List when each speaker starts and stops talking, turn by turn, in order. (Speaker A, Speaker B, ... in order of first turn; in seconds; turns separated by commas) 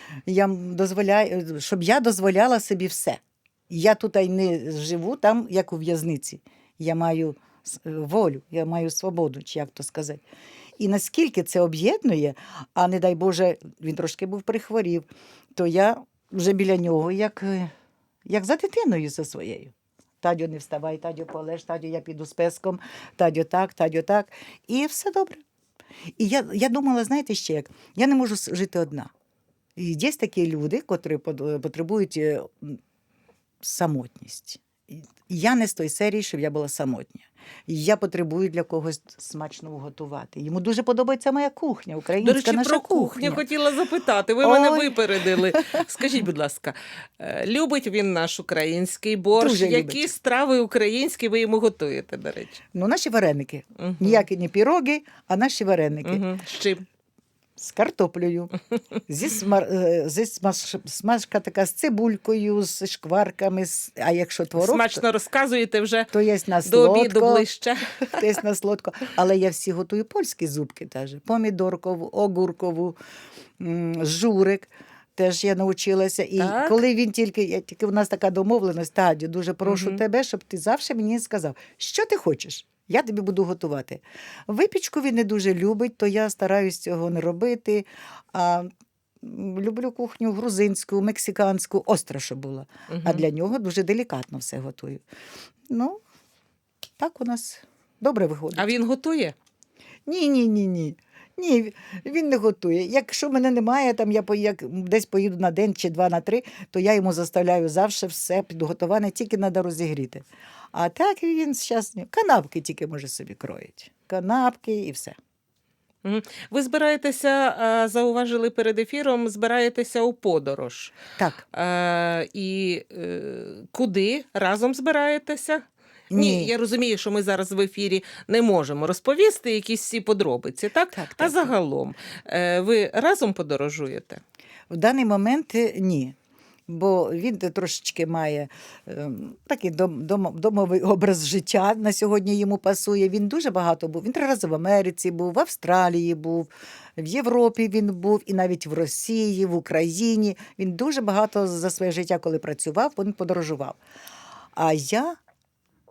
Speaker A: 0.3-10.2, Speaker A: 10.8-17.7, Speaker A: 18.3-25.4, Speaker A: 26.2-29.1, Speaker A: 29.8-32.8, Speaker A: 33.6-43.4, Speaker B: 42.2-52.6, Speaker A: 44.4-45.8, Speaker A: 49.4-50.1, Speaker A: 52.7-56.2, Speaker B: 53.8-54.2, Speaker B: 56.0-56.9, Speaker A: 57.6-58.5, Speaker A: 59.1-65.0, Speaker B: 64.6-66.1, Speaker A: 66.1-67.5, Speaker B: 66.7-68.3, Speaker A: 68.1-73.0, Speaker A: 73.6-88.7, Speaker B: 76.4-76.8, Speaker B: 79.7-80.0, Speaker A: 89.2-95.0, Speaker B: 92.9-93.2, Speaker A: 95.7-96.0, Speaker A: 97.0-98.7, Speaker B: 98.5-99.3, Speaker A: 100.1-115.2, Speaker B: 116.0-121.0, Speaker A: 121.2-121.4, Speaker B: 121.5-134.2, Speaker A: 126.1-126.5, Speaker A: 130.9-131.5, Speaker A: 134.7-136.2, Speaker A: 136.7-153.8, Speaker A: 154.6-155.2